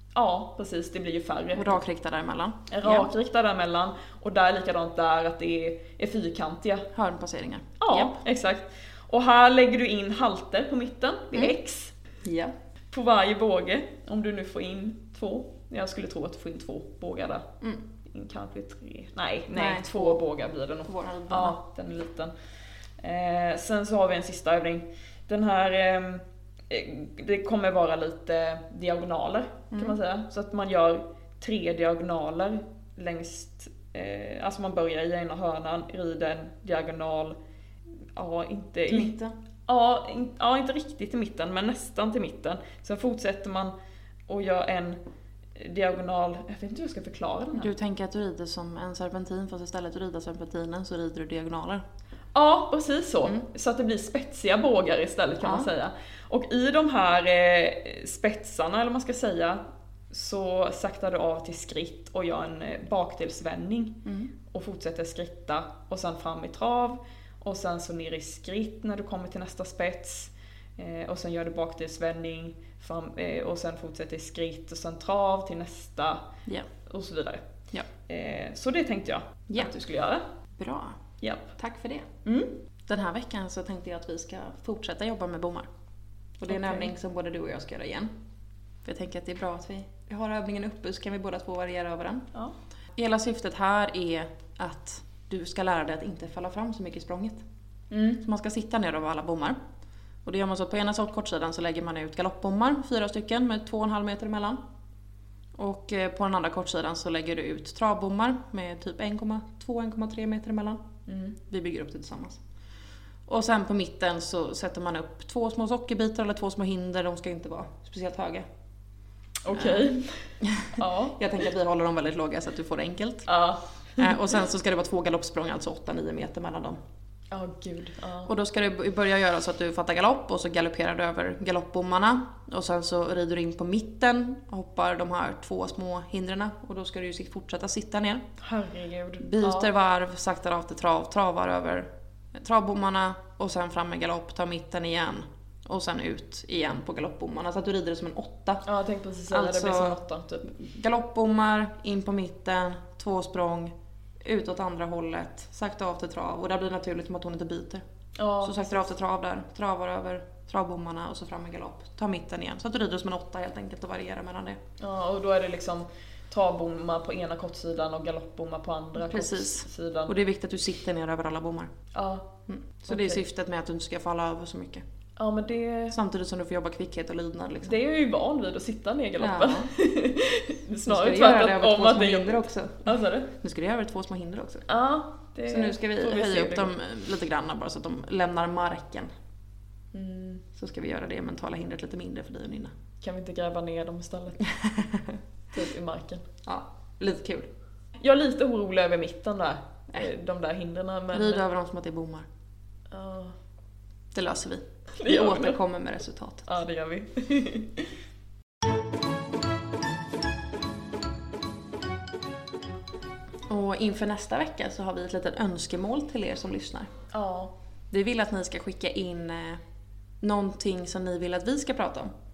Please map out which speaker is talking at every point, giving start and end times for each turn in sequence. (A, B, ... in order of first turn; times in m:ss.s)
0:00.1-0:01.8 A
0:01.5-0:03.1 B
0:02.7-0:06.9 A
0:06.9-0:08.2 B
0:07.8-0:11.9 A
0:12.2-0:12.5 B
0:12.9-0:17.5 A
0:18.0-0:22.3 A
0:19.5-0:20.2 B
0:20.8-0:21.6 B
0:23.0-0:37.4 A
0:29.7-0:30.0 B
0:38.2-0:39.1 A
0:38.9-0:39.3 B
0:39.7-0:43.7 A
0:44.3-0:45.0 A
0:45.6-0:47.7 A
0:47.6-0:51.8 B
0:52.3-0:59.6 A
0:55.4-0:55.7 B
1:00.1-1:16.2 A
1:04.0-1:04.3 B
1:16.8-1:17.4 A
1:18.1-1:20.2 A
1:20.6-1:21.0 B
1:21.2-1:21.6 A
1:21.6-1:22.1 B
1:22.2-1:22.5 A
1:22.9-1:25.7 B
1:26.4-1:28.1 B
1:26.5-1:26.9 A
1:28.8-1:32.3 B
1:33.0-1:37.4 B
1:37.9-1:38.2 A
1:38.2-1:39.6 B
1:40.2-1:44.6 B
1:45.6-1:50.8 B
1:51.1-1:51.4 A
1:51.4-1:52.4 B
1:53.3-1:58.4 B
1:59.4-2:01.2 A
1:59.5-1:59.9 B
2:00.4-2:03.3 B
2:03.2-2:04.1 A
2:04.0-2:06.8 B
2:07.3-2:08.3 A
2:08.3-2:18.2 B
2:18.4-2:19.7 A
2:19.2-2:28.6 B
2:28.6-2:30.5 A
2:29.3-2:37.8 B
2:38.2-2:38.8 A
2:38.4-2:44.6 B
2:44.8-2:50.1 A
2:49.0-2:51.7 B
2:51.9-2:52.3 A
2:52.5-2:54.8 B
2:52.9-2:53.2 A
2:55.2-2:56.0 A
2:55.9-2:57.8 B
2:57.6-3:03.3 A
2:59.2-2:59.7 B
3:00.8-3:04.6 B
3:04.7-3:06.7 A
3:05.5-3:09.1 B
3:09.9-3:10.4 A
3:10.5-3:12.7 B
3:13.0-3:14.4 A
3:14.5-3:15.2 B
3:15.5-3:16.3 A
3:16.4-3:17.5 B
3:18.0-3:21.4 A
3:21.1-3:22.2 B
3:22.9-3:23.4 A
3:24.1-3:26.5 B
3:24.9-3:25.6 A
3:26.4-3:27.9 A
3:33.5-3:36.9 B
3:37.1-3:37.5 A
3:37.9-3:39.6 B
3:40.2-3:42.1 B